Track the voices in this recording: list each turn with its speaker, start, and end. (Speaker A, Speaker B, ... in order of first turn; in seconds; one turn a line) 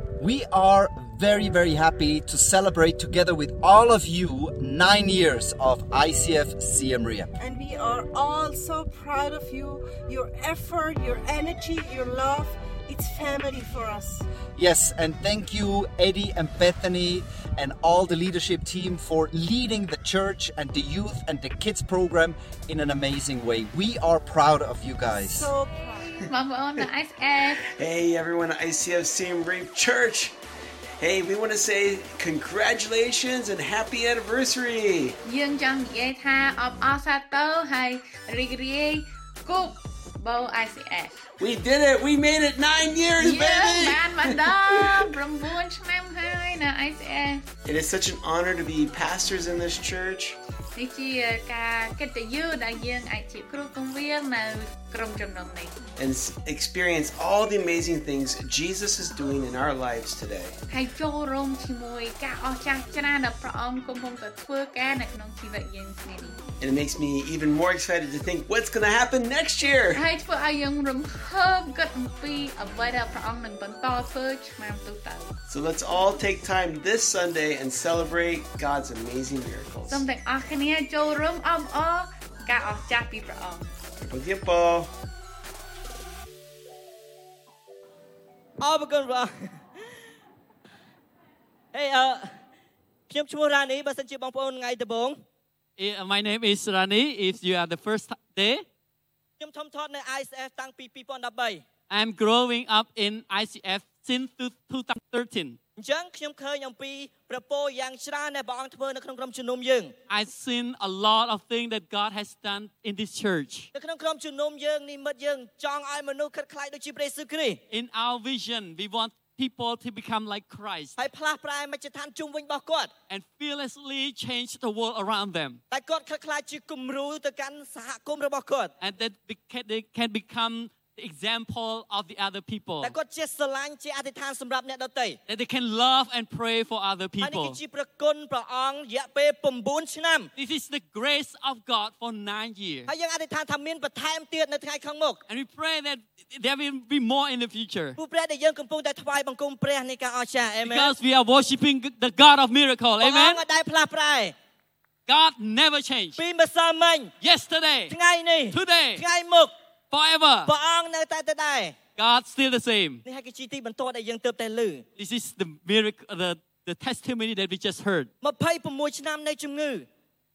Speaker A: 0.2-7.3
Speaker B: 7.4-14.3
Speaker A: 14.6-25.5
Speaker B: 25.1-26.2
Speaker C: 26.3-27.6
Speaker D: 27.6-30.3
Speaker D: 31.0-35.2
Speaker C: 35.2-41.2
Speaker D: 41.4-45.1
Speaker C: 43.2-47.5
Speaker D: 47.6-50.4
Speaker C: 50.7-55.8
Speaker D: 56.0-60.5
Speaker C: 60.7-66.4
Speaker D: 66.6-70.0
Speaker C: 70.0-75.3
Speaker D: 75.5-80.0
Speaker C: 79.9-83.7
Speaker D: 84.0-84.9
Speaker E: 88.6-89.5
Speaker E: 91.7-92.3
Speaker E: 93.1-95.2
Speaker F: 95.8-98.6
Speaker E: 99.4-101.6
Speaker F: 101.9-105.6
Speaker E: 105.8-109.9
Speaker F: 110.1-113.7
Speaker E: 113.7-117.6
Speaker F: 117.7-121.0
Speaker E: 121.0-122.9
Speaker F: 123.1-125.6
Speaker E: 125.7-128.7
Speaker F: 128.8-132.9
Speaker E: 132.8-135.2
Speaker F: 135.3-137.6
Speaker E: 137.2-140.3
Speaker F: 140.4-142.9
Speaker E: 142.9-145.2
Speaker F: 145.3-148.0
Speaker E: 148.0-150.9
Speaker F: 150.6-153.4
Speaker E: 153.0-154.3
Speaker F: 155.1-156.2
Speaker E: 156.2-157.1
Speaker F: 157.2-157.9
Speaker E: 157.9-159.5
Speaker F: 158.5-159.1
Speaker F: 159.9-160.5
Speaker E: 160.5-161.8
Speaker F: 162.0-163.0
Speaker E: 163.1-164.8
Speaker F: 165.0-168.1
Speaker E: 168.2-169.9